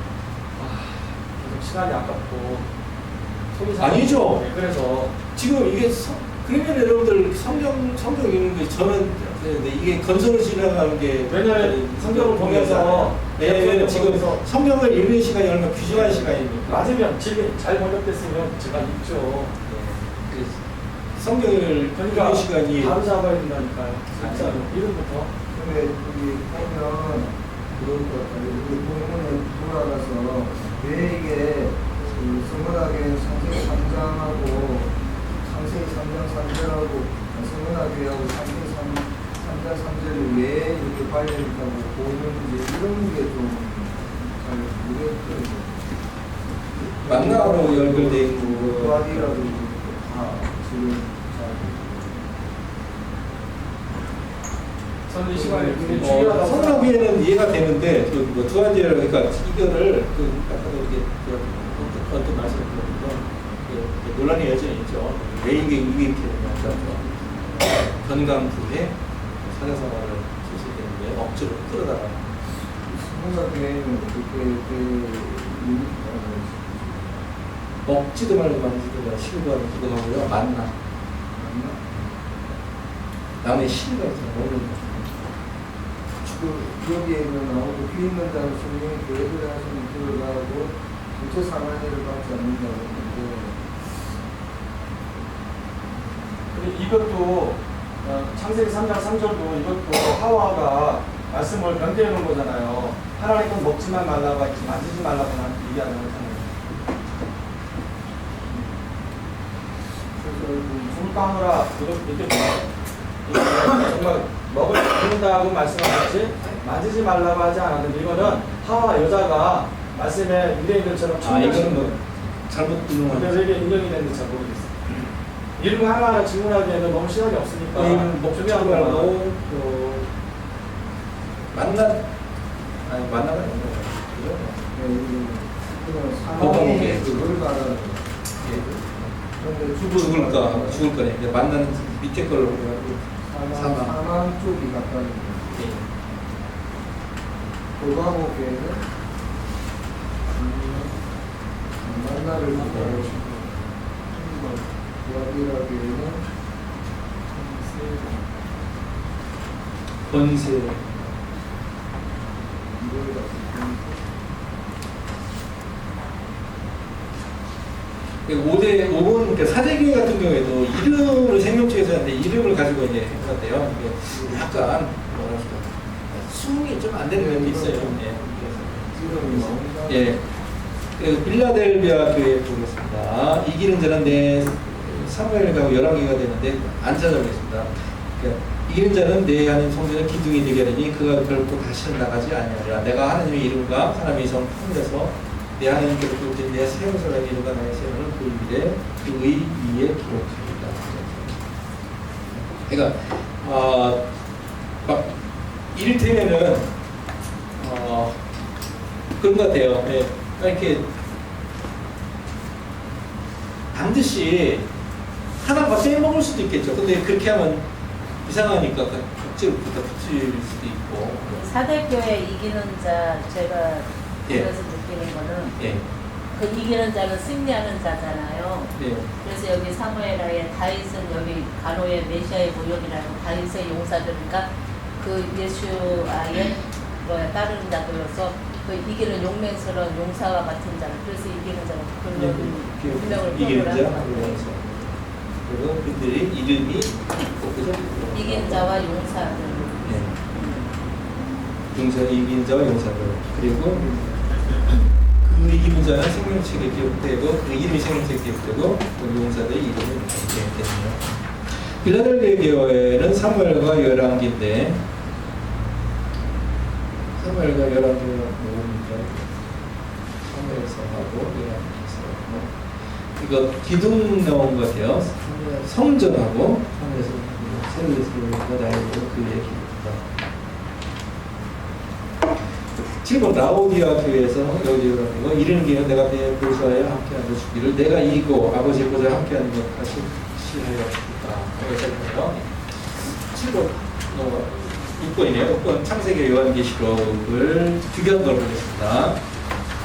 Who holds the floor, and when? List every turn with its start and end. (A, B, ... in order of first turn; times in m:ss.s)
0:00.6-0:02.6 A
0:03.5-0:05.2 A
0:03.8-0:04.4 B
0:05.3-0:16.9 B
0:11.3-0:14.4 A
0:15.9-0:19.5 A
0:19.6-0:20.6 B
0:21.2-0:23.0 B
0:21.9-0:25.3 A
0:24.1-0:24.7 B
0:25.5-0:45.8 C
0:46.7-0:52.3 C
0:47.0-0:49.6 B
0:55.1-0:57.0 A
0:55.3-0:56.7 C
0:56.0-1:07.1 B
1:07.6-1:12.2 B
1:12.8-1:17.2 C
1:17.8-1:20.7 B
1:21.4-1:21.8 C
1:23.4-1:25.2 B
1:26.2-1:33.6 C
1:36.5-1:46.6 A
1:50.2-1:51.0 C
1:50.8-1:52.7 A
1:53.2-2:01.9 A
1:58.2-1:58.5 B
2:01.2-2:03.5 B
2:03.1-2:04.8 A
2:05.6-2:09.1 A
2:07.7-2:10.1 B
2:11.5-2:12.1 B
2:12.8-2:14.6 B
2:14.7-2:20.8 C
2:16.4-2:17.4 B
2:18.4-2:19.1 B
2:19.8-2:24.0 B
2:23.3-2:25.6 C
2:25.5-2:25.9 B
2:27.8-2:28.8 C
2:30.3-2:30.9 C
2:31.8-2:33.5 C
2:32.5-2:33.4 A
2:32.6-2:33.0 B
2:34.1-2:36.2 C
2:37.3-2:38.2 A
2:40.1-2:41.1 B
2:42.6-2:44.0 C
2:48.2-3:00.2 B
2:54.1-2:54.6 C
2:57.1-3:00.2 C
3:01.0-3:21.4 B
3:22.3-3:24.0 B
3:24.8-3:25.1 B
3:25.7-3:26.7 B
3:27.6-3:28.2 B
3:29.2-3:30.9 B
3:33.7-3:34.7 B
3:35.4-3:37.6 B
3:38.2-3:41.4 B
3:41.3-3:45.6 D
3:45.6-3:45.8 B
3:46.3-3:54.5 D
3:48.8-3:49.1 B
3:55.0-4:04.4 D
4:02.1-4:04.9 B
4:05.4-4:08.7 B
4:08.1-4:10.6 D
4:09.8-4:10.2 B
4:11.7-4:13.9 B
4:13.8-4:14.2 C
4:15.2-4:24.8 B
4:27.2-4:29.4 B
4:30.2-4:32.5 B
4:33.2-4:40.0 B
4:43.0-4:52.5 B
4:53.0-4:59.2 B